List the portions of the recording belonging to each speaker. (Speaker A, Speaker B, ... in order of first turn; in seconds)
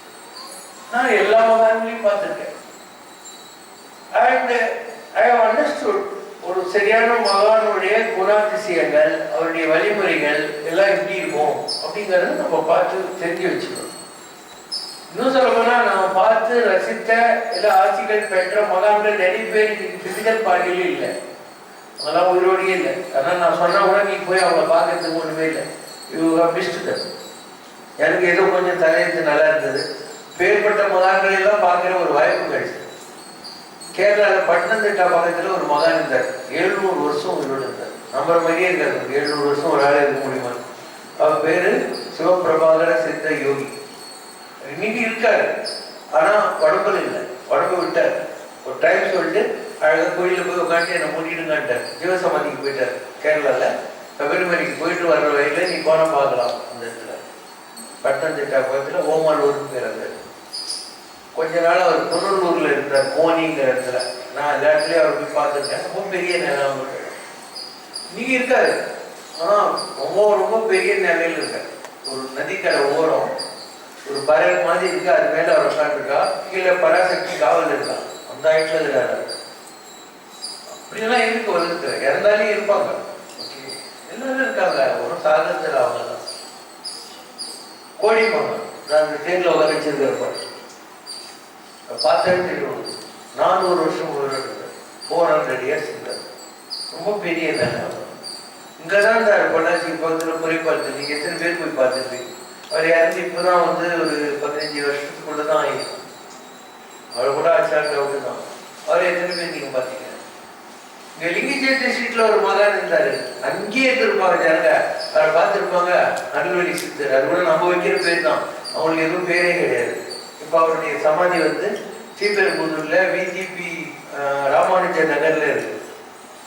Speaker A: 0.9-2.5, 4.1-13.9, 15.1-21.1, 22.0-27.0, 28.0-32.9, 33.9-40.6, 41.2-43.7, 44.6-45.5, 46.1-57.2, 58.0-60.1, 61.3-67.2, 68.1-68.8, 69.4-73.3, 74.0-79.3, 80.8-86.2, 88.0-90.4, 91.9-96.2, 96.9-98.1, 98.8-106.0, 107.1-110.2, 111.2-125.8